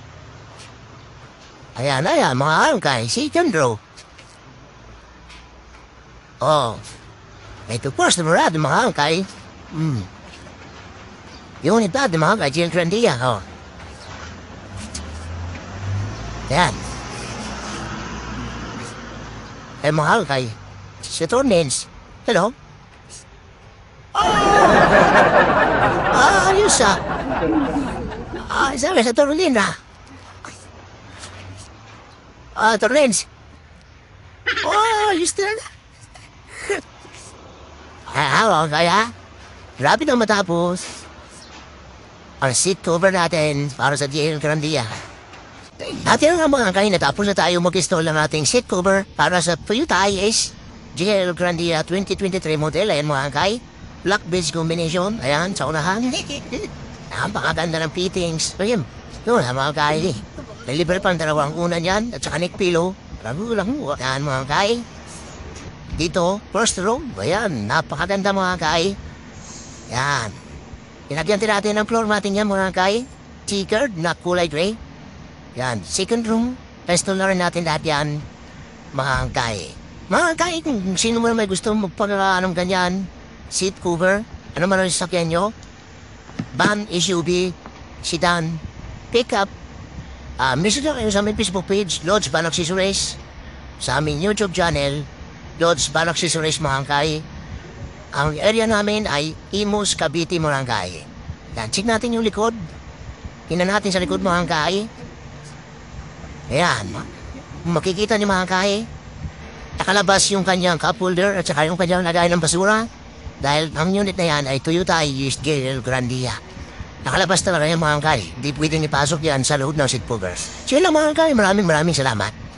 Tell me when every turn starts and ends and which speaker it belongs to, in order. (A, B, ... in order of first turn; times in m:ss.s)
0:01.7-0:03.8 A
0:06.4-0:06.8 A
0:07.7-0:10.1 A
0:11.6-0:13.4 A
0:16.5-0:16.8 A
0:19.8-0:22.6 A
0:24.1-0:25.1 A
0:26.1-0:27.0 A
0:28.4-0:29.8 A
0:32.5-0:33.3 A
0:34.6-0:35.6 A
0:38.0-0:39.1 A
0:39.8-0:41.0 A
0:42.4-0:45.0 A
0:46.0-1:04.8 A
1:05.9-1:09.0 A
1:09.9-1:10.4 A
1:11.1-1:14.8 A
1:15.5-1:18.3 A
1:18.9-1:25.5 A
1:26.5-1:29.5 A
1:30.4-1:33.2 A
1:33.8-1:37.2 A
1:38.1-1:42.7 A
1:43.5-1:44.9 A
1:46.5-1:47.1 A
1:47.6-1:48.9 A
1:49.8-1:52.9 A
1:53.4-1:56.4 A
1:57.0-2:02.3 A